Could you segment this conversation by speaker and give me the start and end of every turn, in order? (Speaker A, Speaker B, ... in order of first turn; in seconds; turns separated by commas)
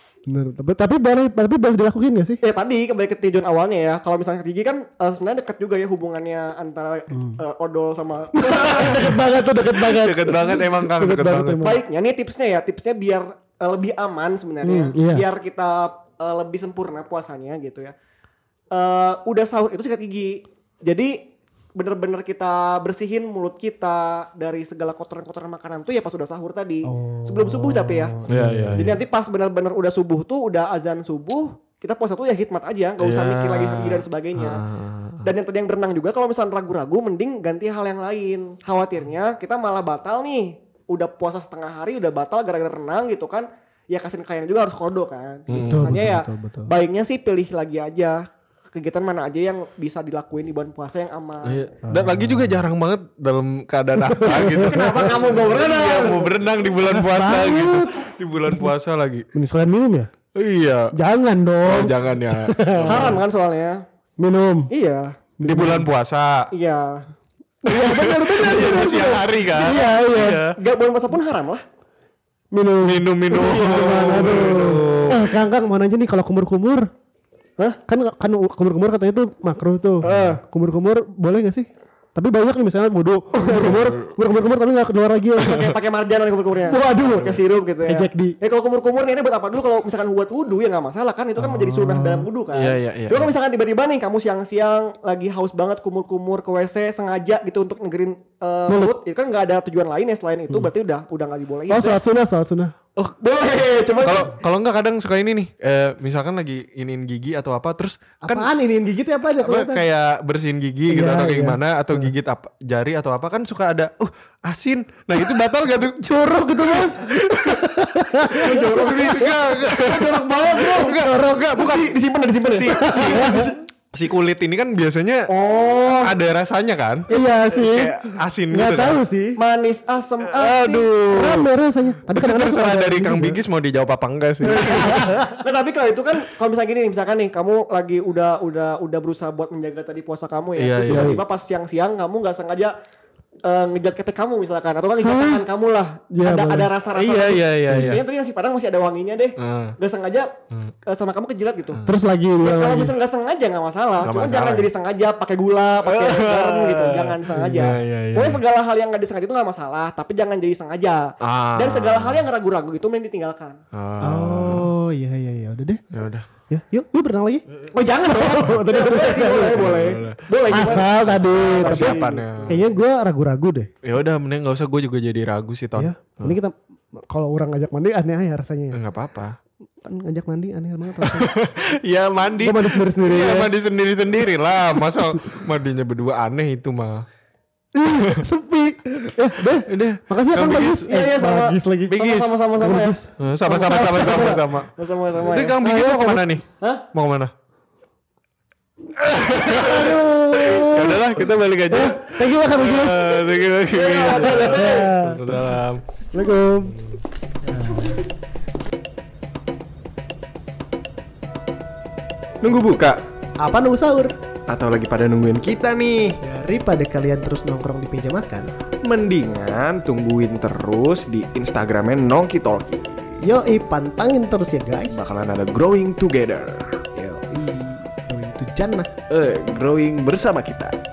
Speaker A: 0.3-2.4, Speaker B: 2.4-8.9, Speaker A: 7.1-7.4, Speaker A: 8.3-11.8, Speaker C: 8.7-11.7, Speaker B: 11.6-17.9, Speaker A: 14.6-15.3, Speaker B: 18.7-28.1, Speaker A: 26.8-29.0, Speaker C: 28.3-29.0, Speaker B: 28.8-34.6, Speaker C: 33.0-35.3, Speaker B: 35.2-48.2, Speaker C: 45.5-46.1, Speaker A: 45.5-46.7, Speaker B: 48.7-51.8, Speaker C: 51.4-59.2, Speaker A: 51.9-52.5, Speaker A: 54.0-55.1, Speaker B: 54.5-56.3, Speaker A: 56.8-58.0, Speaker A: 59.3-60.1, Speaker C: 60.3-60.9, Speaker A: 60.9-63.2, Speaker C: 61.6-63.2, Speaker B: 62.9-63.8, Speaker A: 64.2-64.7, Speaker B: 64.7-65.2, Speaker A: 65.4-65.9, Speaker C: 65.5-66.4, Speaker B: 66.5-67.0, Speaker A: 67.6-70.4, Speaker C: 67.7-70.5, Speaker B: 70.5-71.6, Speaker A: 72.5-76.9, Speaker C: 72.8-75.4, Speaker A: 77.9-85.7, Speaker C: 80.0-80.3, Speaker B: 80.0-80.4, Speaker B: 83.3-83.7, Speaker C: 83.5-84.2, Speaker C: 85.4-85.8, Speaker B: 85.5-102.0, Speaker A: 86.7-88.3, Speaker C: 87.1-87.4, Speaker A: 91.4-92.3, Speaker C: 92.5-93.3, Speaker A: 98.7-98.9, Speaker A: 101.7-102.7, Speaker B: 103.0-104.3, Speaker C: 104.0-108.5, Speaker A: 108.2-109.8, Speaker C: 109.4-129.0, Speaker A: 110.9-112.1, Speaker A: 116.0-119.4, Speaker B: 118.4-118.8, Speaker B: 119.8-121.0, Speaker A: 120.8-121.6, Speaker B: 121.5-123.3, Speaker A: 122.7-123.6, Speaker B: 125.3-126.1, Speaker A: 127.1-129.3, Speaker B: 129.4-130.9, Speaker C: 130.2-131.5, Speaker A: 131.1-133.4, Speaker C: 132.1-135.2, Speaker A: 134.4-135.4, Speaker B: 135.3-142.7, Speaker C: 140.6-141.2, Speaker A: 140.8-141.2, Speaker B: 143.4-150.3, Speaker A: 145.0-145.4, Speaker A: 146.1-146.7, Speaker C: 146.8-148.0, Speaker C: 149.4-149.7, Speaker B: 150.8-151.8, Speaker A: 151.8-152.9, Speaker B: 152.4-163.6, Speaker C: 154.0-154.7, Speaker C: 155.8-158.4, Speaker A: 157.4-157.7, Speaker C: 161.2-162.3, Speaker C: 163.7-164.7, Speaker A: 164.0-165.8, Speaker C: 165.9-166.2, Speaker A: 166.5-167.4, Speaker B: 167.7-172.6, Speaker A: 168.1-169.8, Speaker C: 169.3-172.6, Speaker A: 170.5-173.7, Speaker C: 173.8-176.4, Speaker A: 175.8-176.5, Speaker A: 177.1-178.8, Speaker C: 178.7-179.3, Speaker A: 179.8-181.3, Speaker C: 181.0-187.0, Speaker A: 182.4-183.5, Speaker A: 187.7-192.1, Speaker C: 189.5-191.0, Speaker B: 190.9-192.9, Speaker C: 191.9-192.3, Speaker A: 192.6-194.5, Speaker C: 193.2-197.3, Speaker B: 193.5-195.6, Speaker A: 195.6-196.3, Speaker B: 196.6-196.8, Speaker C: 199.0-205.8, Speaker A: 199.5-203.4, Speaker B: 203.7-204.9, Speaker A: 204.4-205.5, Speaker A: 206.1-206.8, Speaker C: 206.6-207.0, Speaker A: 207.5-208.0, Speaker C: 212.4-213.0, Speaker A: 213.4-214.1, Speaker C: 214.5-216.2, Speaker A: 216.2-218.5, Speaker C: 218.8-223.2, Speaker A: 223.2-225.1, Speaker C: 224.9-226.8, Speaker A: 226.9-228.9, Speaker C: 229.1-230.7